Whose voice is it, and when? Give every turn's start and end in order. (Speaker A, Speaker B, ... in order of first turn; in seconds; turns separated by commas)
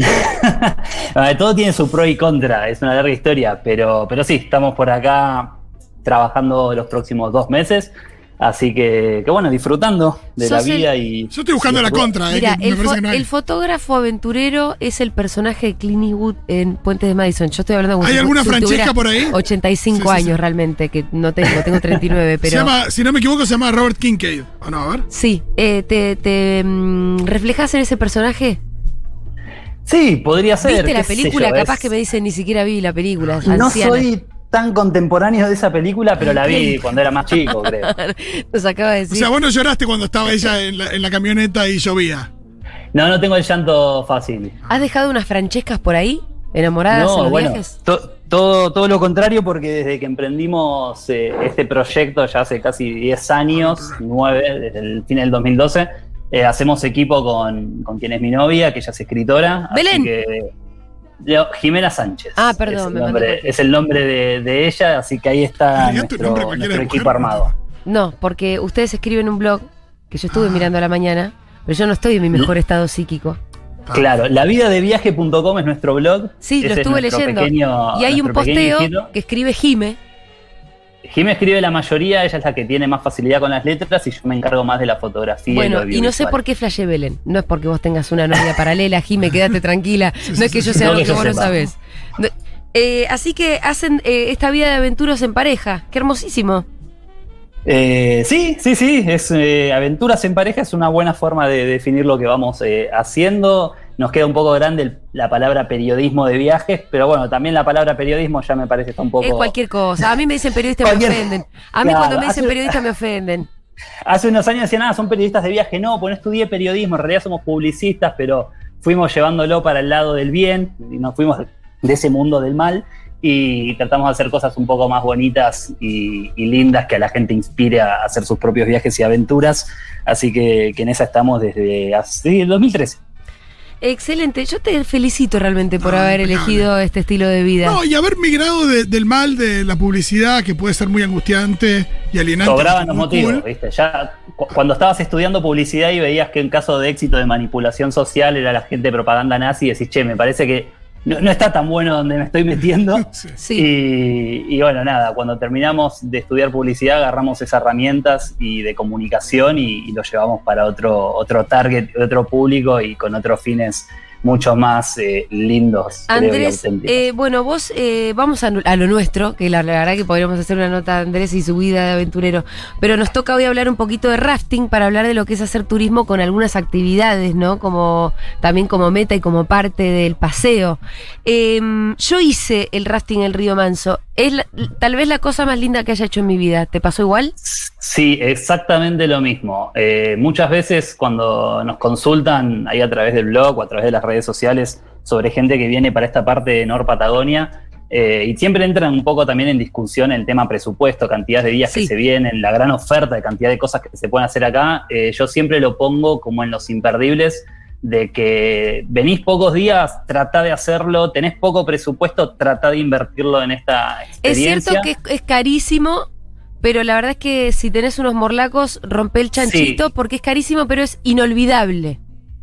Speaker A: 0.1-12.1, Speaker B: 10.4-10.9, Speaker C: 11.3-13.3, Speaker B: 12.3-22.7, Speaker C: 18.0-20.4, Speaker C: 21.4-25.1, Speaker B: 25.1-28.6, Speaker A: 29.9-31.9, Speaker B: 30.6-34.1, Speaker C: 33.2-33.6, Speaker A: 33.5-37.9, Speaker B: 36.3-39.3, Speaker C: 39.1-42.3, Speaker A: 42.9-44.6, Speaker B: 44.7-47.7, Speaker A: 46.9-60.5, Speaker C: 53.5-54.0, Speaker B: 59.7-60.1, Speaker A: 61.2-67.5, Speaker B: 62.4-63.5, Speaker C: 65.7-67.5, Speaker B: 67.8-73.4, Speaker C: 70.3-70.7, Speaker A: 73.9-79.1, Speaker B: 76.4-80.0, Speaker A: 81.0-86.4, Speaker B: 85.5-96.7, Speaker C: 90.3-91.7, Speaker A: 90.7-91.5, Speaker A: 97.7-109.5, Speaker B: 109.2-113.5, Speaker A: 110.8-111.3, Speaker A: 111.8-112.7, Speaker A: 114.0-133.0, Speaker B: 133.8-137.8, Speaker C: 135.8-136.7, Speaker C: 137.6-143.4, Speaker A: 142.4-167.0, Speaker B: 153.4-153.7, Speaker B: 166.1-187.3, Speaker A: 187.4-214.9, Speaker B: 214.2-216.1, Speaker B: 216.6-222.0, Speaker A: 219.4-219.8